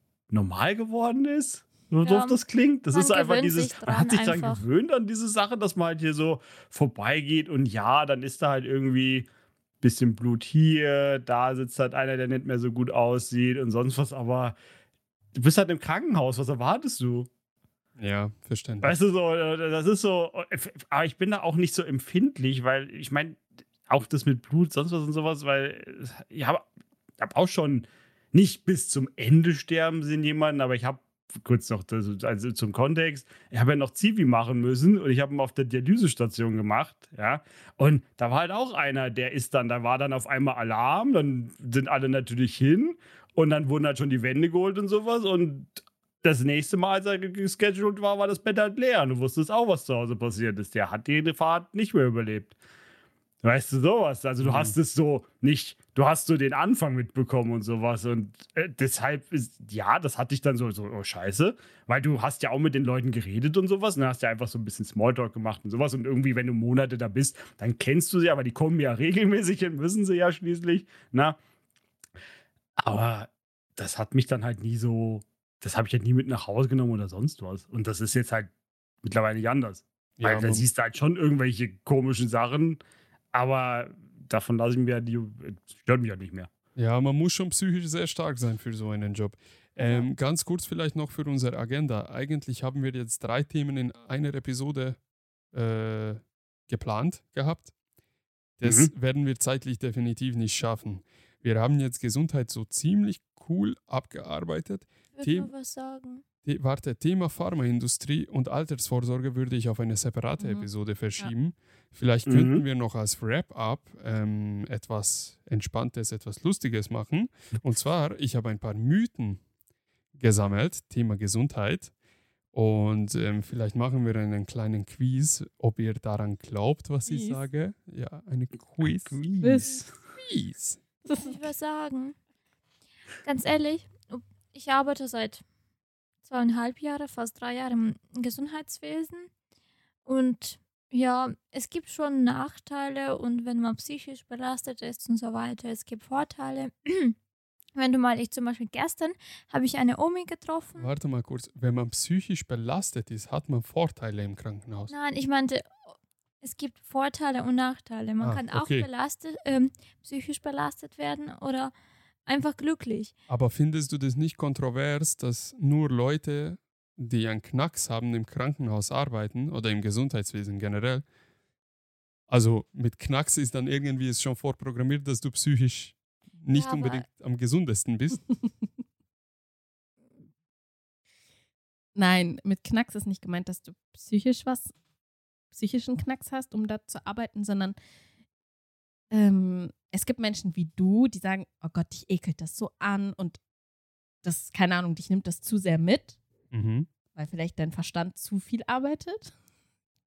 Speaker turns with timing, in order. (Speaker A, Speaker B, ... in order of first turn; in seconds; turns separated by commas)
Speaker A: 0.3-9.3, Speaker B: 2.0-2.4, Speaker B: 2.9-4.6, Speaker A: 9.8-14.6, Speaker A: 15.3-17.3, Speaker C: 18.0-19.0, Speaker A: 18.8-26.7, Speaker A: 27.2-52.5, Speaker A: 53.4-71.4, Speaker C: 54.4-54.7, Speaker A: 72.8-78.5, Speaker A: 79.0-82.8, Speaker C: 80.2-80.6, Speaker A: 83.3-86.5, Speaker C: 86.8-95.0, Speaker D: 89.8-90.1, Speaker C: 95.5-97.7, Speaker C: 98.6-105.5, Speaker A: 98.6-98.9, Speaker B: 105.1-106.2, Speaker C: 106.4-119.4, Speaker D: 110.4-110.7, Speaker A: 112.3-112.6, Speaker C: 120.1-121.9, Speaker C: 122.5-129.2, Speaker D: 127.1-127.4, Speaker A: 128.8-129.9, Speaker D: 129.4-129.8, Speaker C: 130.1-130.8, Speaker D: 131.0-131.5, Speaker B: 131.1-132.2, Speaker B: 133.2-135.4, Speaker B: 136.2-139.3, Speaker B: 140.1-147.2, Speaker B: 147.7-150.9, Speaker C: 150.8-154.9, Speaker B: 154.9-155.9, Speaker B: 156.4-161.7, Speaker C: 158.2-158.9, Speaker B: 162.3-163.1, Speaker C: 163.3-171.0, Speaker C: 172.3-178.2, Speaker B: 176.5-177.0, Speaker D: 181.9-184.7, Speaker D: 185.5-187.8, Speaker D: 189.1-193.4, Speaker D: 194.2-196.2, Speaker C: 196.5-196.9, Speaker D: 197.1-199.3